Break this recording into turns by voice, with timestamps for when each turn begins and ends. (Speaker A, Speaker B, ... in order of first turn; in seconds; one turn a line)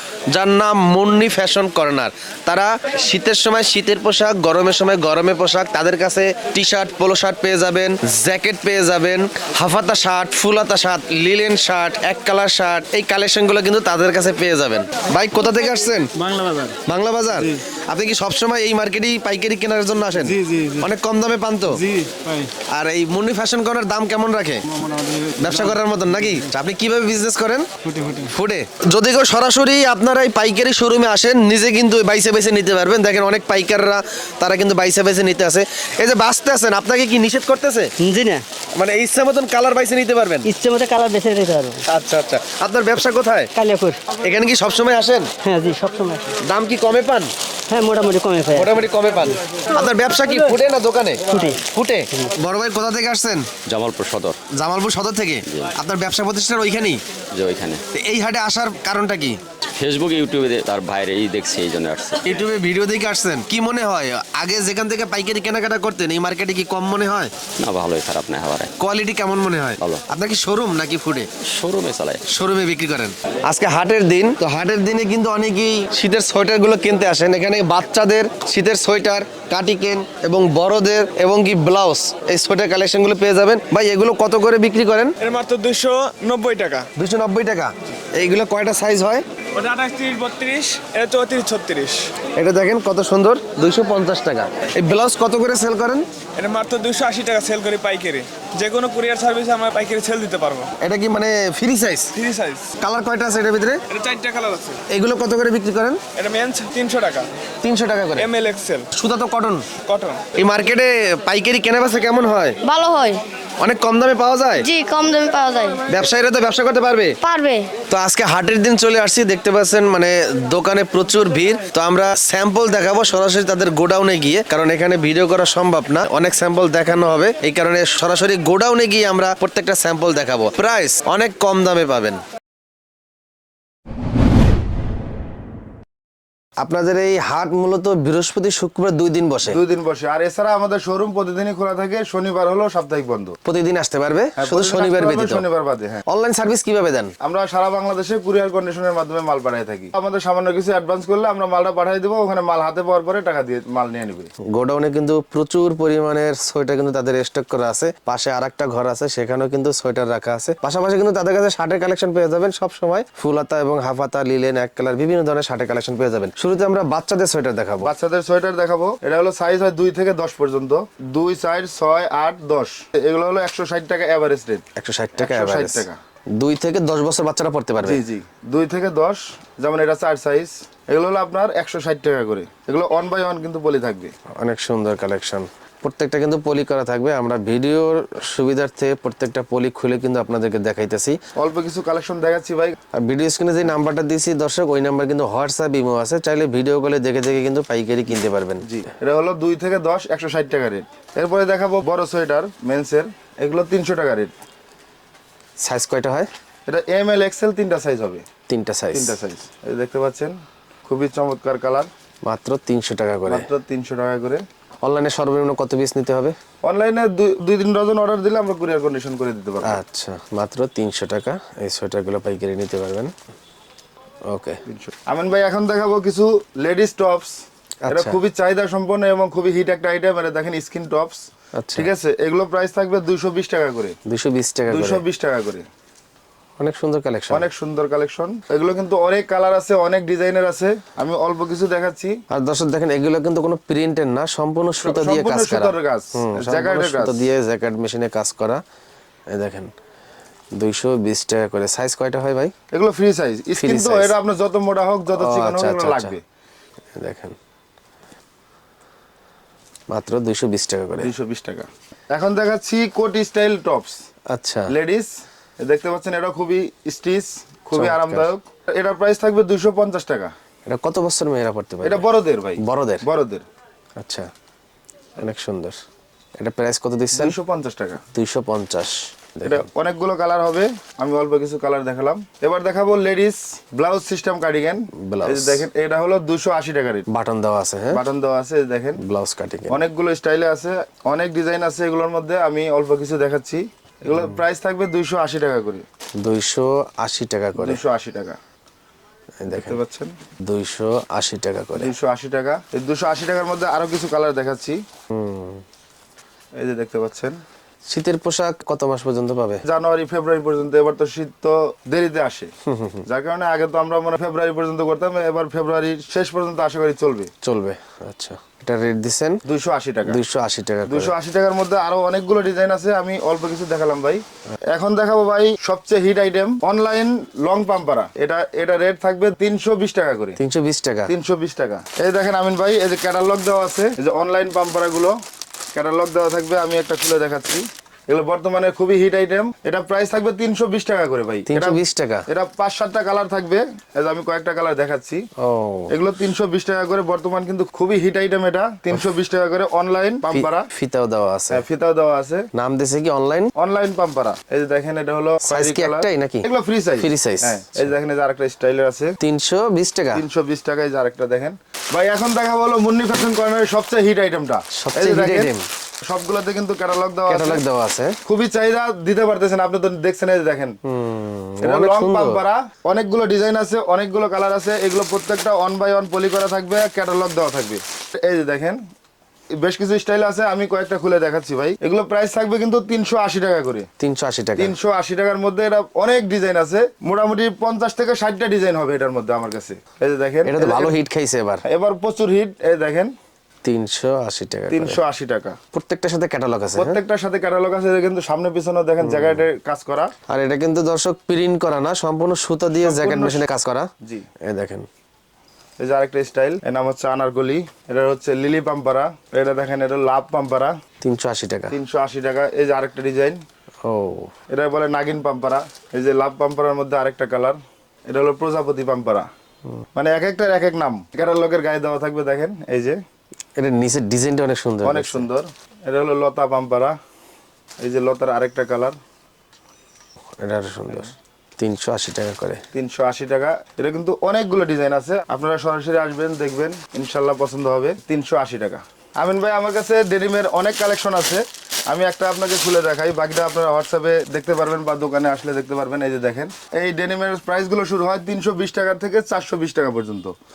Speaker A: 0.3-16.1
Speaker A: 16.8-21.8
Speaker A: 22.7-24.6
Speaker A: 25.3-37.9
Speaker B: 38.0-38.4
Speaker A: 38.7-40.5
Speaker B: 40.4-41.8
Speaker A: 41.8-43.5
Speaker B: 43.5-44.0
Speaker A: 44.1-45.3
Speaker B: 45.4-46.4
Speaker A: 46.4-47.3
Speaker B: 47.7-48.7
Speaker A: 48.5-53.5
Speaker B: 51.3-51.6
Speaker C: 53.6-54.4
Speaker A: 54.5-57.0
Speaker C: 55.5-55.7
Speaker C: 57.3-57.8
Speaker A: 57.9-59.4
Speaker C: 59.8-62.3
Speaker A: 62.2-67.3
Speaker C: 67.6-68.7
Speaker A: 68.8-71.3
Speaker C: 71.4-72.2
Speaker A: 72.3-85.2
Speaker D: 85.2-86.9
Speaker A: 87.0-89.2
Speaker D: 89.5-92.1
Speaker A: 92.3-96.0
Speaker D: 96.4-100.7
Speaker A: 100.8-102.1
Speaker D: 102.2-102.7
Speaker A: 102.7-103.8
Speaker D: 103.9-104.8
Speaker A: 104.9-106.0
Speaker D: 106.1-107.3
Speaker A: 107.6-108.3
Speaker D: 108.2-108.9
Speaker A: 108.9-109.7
Speaker D: 109.8-110.2
Speaker A: 110.3-112.6
Speaker E: 112.6-113.2
Speaker A: 113.6-114.7
Speaker E: 114.6-115.8
Speaker A: 115.9-117.2
Speaker E: 117.2-117.7
Speaker A: 117.9-132.2
Speaker A: 136.6-139.6
Speaker F: 139.4-143.4
Speaker A: 143.4-145.4
Speaker F: 144.4-146.0
Speaker A: 146.1-147.1
Speaker F: 147.2-154.3
Speaker A: 154.5-167.9
Speaker F: 167.8-174.6
Speaker A: 174.8-178.0
Speaker F: 175.2-176.0
Speaker F: 177.8-184.1
Speaker A: 184.4-191.2
Speaker F: 191.3-192.8
Speaker A: 192.9-198.7
Speaker F: 198.6-204.3
Speaker A: 205.6-206.3
Speaker F: 206.7-208.2
Speaker A: 208.5-209.1
Speaker F: 208.9-211.9
Speaker A: 212.2-213.5
Speaker F: 213.3-214.4
Speaker A: 214.8-216.3
Speaker F: 216.6-219.8
Speaker A: 219.6-223.1
Speaker A: 224.3-224.6
Speaker F: 224.7-227.4
Speaker A: 227.8-228.2
Speaker F: 227.9-233.9
Speaker A: 231.6-231.9
Speaker A: 234.1-235.0
Speaker F: 234.7-235.7
Speaker A: 236.6-237.4
Speaker F: 237.3-242.2
Speaker A: 242.3-248.6
Speaker F: 244.8-247.3
Speaker A: 249.3-249.7
Speaker A: 250.5-252.5
Speaker F: 252.7-256.2
Speaker A: 253.6-254.1
Speaker A: 255.1-256.1
Speaker A: 257.0-257.4
Speaker A: 259.9-261.1
Speaker F: 261.0-264.0
Speaker A: 264.3-264.7
Speaker F: 264.7-270.3
Speaker A: 267.7-268.3
Speaker A: 270.6-272.0
Speaker F: 271.8-273.4
Speaker A: 272.6-273.0
Speaker A: 274.0-274.3
Speaker A: 275.2-275.8
Speaker A: 276.4-277.4
Speaker F: 277.1-278.0
Speaker A: 278.1-279.6
Speaker F: 279.4-287.1
Speaker A: 285.0-285.6
Speaker A: 287.1-288.0
Speaker F: 287.9-289.0
Speaker A: 289.0-289.8
Speaker F: 289.7-295.8
Speaker A: 296.2-297.8
Speaker F: 297.6-298.4
Speaker A: 299.4-299.8
Speaker F: 299.5-300.1
Speaker A: 300.4-301.9
Speaker F: 301.7-304.8
Speaker A: 305.1-305.6
Speaker F: 306.6-307.4
Speaker A: 307.9-309.6
Speaker F: 309.6-312.5
Speaker A: 312.7-313.0
Speaker F: 313.0-317.3
Speaker A: 317.4-319.4
Speaker F: 319.4-320.2
Speaker A: 320.1-321.1
Speaker F: 320.9-330.4
Speaker A: 330.4-331.1
Speaker F: 331.1-335.1
Speaker F: 335.7-345.2
Speaker A: 341.5-342.2
Speaker A: 345.4-345.9
Speaker F: 345.9-350.7
Speaker A: 350.3-351.6
Speaker F: 351.5-352.4
Speaker A: 352.5-353.5
Speaker F: 353.5-359.1
Speaker A: 355.4-356.5
Speaker A: 357.0-357.8
Speaker A: 359.2-360.2
Speaker F: 360.1-365.5
Speaker A: 364.7-365.6
Speaker F: 366.1-367.6
Speaker A: 367.3-368.2
Speaker F: 368.2-370.8
Speaker A: 370.9-372.4
Speaker F: 371.6-378.8
Speaker F: 379.6-383.9
Speaker A: 384.0-384.7
Speaker F: 384.6-390.9
Speaker A: 390.4-391.6
Speaker F: 391.6-393.1
Speaker A: 393.6-395.0
Speaker F: 394.7-395.6
Speaker A: 395.7-397.0
Speaker F: 396.8-400.1
Speaker A: 399.0-399.4
Speaker A: 400.3-403.9
Speaker F: 402.8-403.4
Speaker A: 404.4-404.9
Speaker F: 405.8-410.7
Speaker A: 411.0-411.7
Speaker F: 411.7-413.4
Speaker A: 413.8-414.3
Speaker F: 414.5-419.3
Speaker F: 419.9-423.0
Speaker A: 423.6-425.2
Speaker F: 424.8-426.9
Speaker F: 427.8-429.0
Speaker A: 430.4-432.6
Speaker F: 432.7-450.3